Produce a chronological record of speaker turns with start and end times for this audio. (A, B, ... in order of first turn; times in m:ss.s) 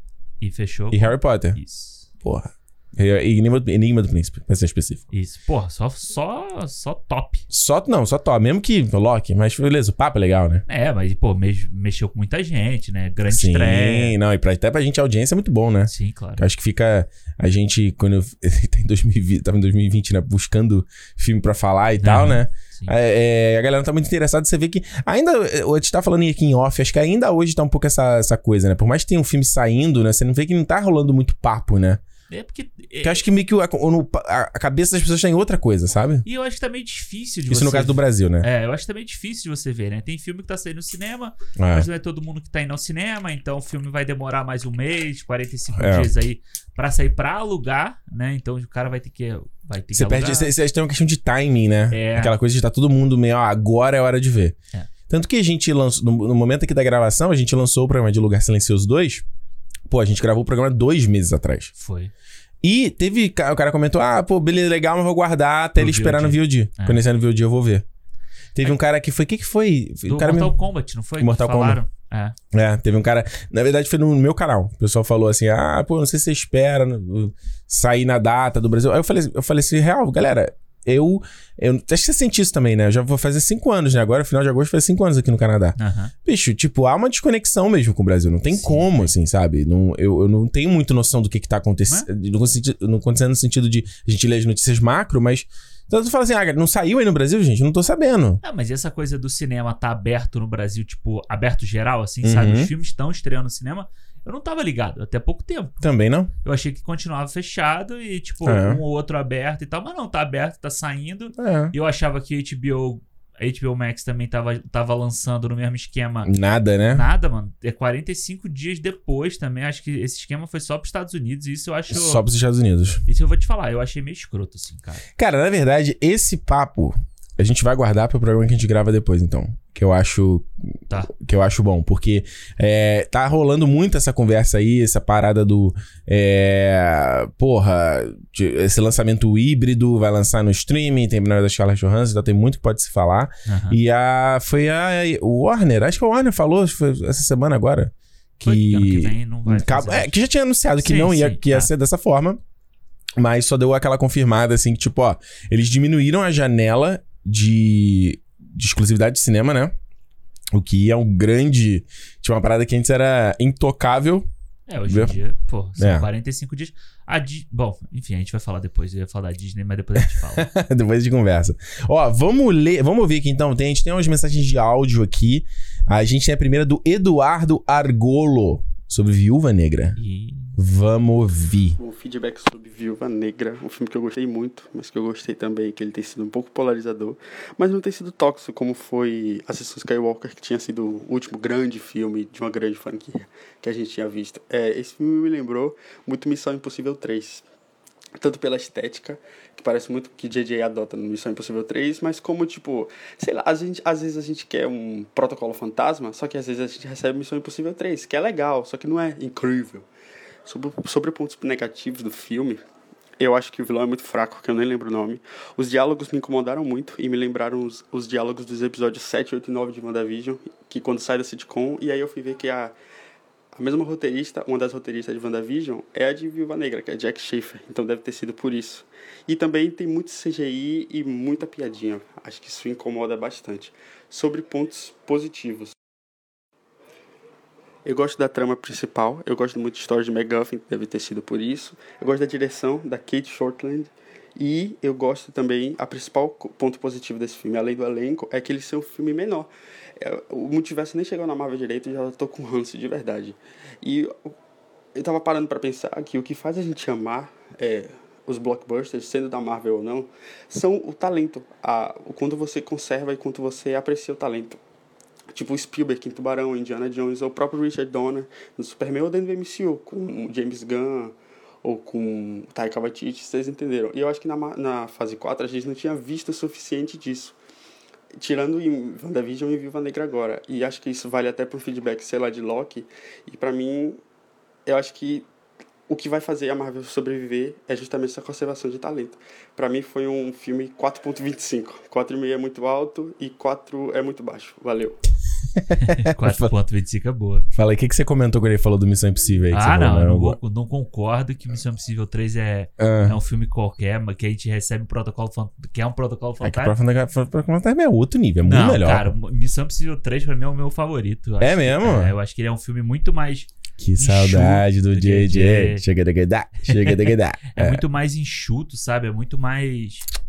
0:00.4-0:02.1 A
0:00.9-0:01.6 B
0:02.2-0:05.1 B
0:05.1-0:07.5 A
0:07.5-0:10.6 B
0:10.7-0:14.2 A
0:13.3-0:32.0 B
0:15.9-0:16.4 A
0:22.0-0:22.9 A
0:32.3-0:33.2 A
0:33.0-0:36.2 B
0:36.2-0:50.5 A
0:37.5-0:38.5 B
0:41.6-0:41.9 B
0:45.8-0:46.1 B
0:49.9-0:54.6 B
0:51.9-0:52.4 A
0:55.1-0:59.2 B
0:59.9-1:01.7 B
1:01.8-1:02.1 A
1:02.6-1:07.8 B
1:05.8-1:07.0 A
1:08.6-1:10.6 B
1:10.1-1:12.4 A
1:11.2-1:11.8 B
1:12.5-1:38.4 B
1:25.8-1:26.1 A
1:28.5-1:29.1 A
1:38.4-1:45.8 A
1:42.2-1:42.7 B
1:45.8-1:46.3 B
1:46.4-1:56.3 A
1:48.4-1:48.8 B
1:51.4-1:51.7 B
1:56.2-1:57.1 B
1:56.9-2:02.2 A
2:01.9-2:03.0 B
2:03.1-2:05.0 A
2:05.2-2:10.5 B
2:11.1-2:32.4 B
2:23.5-2:23.8 A
2:28.4-2:30.2 A
2:30.8-2:31.7 A
2:33.2-2:39.7 B
2:40.5-2:44.3 B
2:44.7-2:50.5 A
2:44.9-2:45.2 B
2:45.8-2:46.1 B
2:50.4-3:00.0 B
3:00.0-3:00.6 A
3:00.6-3:01.8 B
3:01.8-3:17.4 C
3:18.2-3:29.8 C
3:30.5-3:32.6 C
3:33.2-3:42.7 C
3:43.5-3:55.8 C
3:57.8-4:14.3 C
4:15.0-4:24.6 C
4:25.3-4:31.1 C
4:31.6-4:37.4 C
4:38.2-4:44.0 C
4:44.7-4:45.2 C
4:45.9-4:55.0 C
4:55.6-4:56.5 B
4:55.8-4:57.5 A
4:57.5-5:00.4 B
4:59.5-5:06.8 A
5:02.8-5:03.2 B
5:06.4-5:09.1 B
5:08.4-5:15.8 A
5:11.4-5:12.1 B
5:13.8-5:17.8 B
5:16.7-5:20.1 A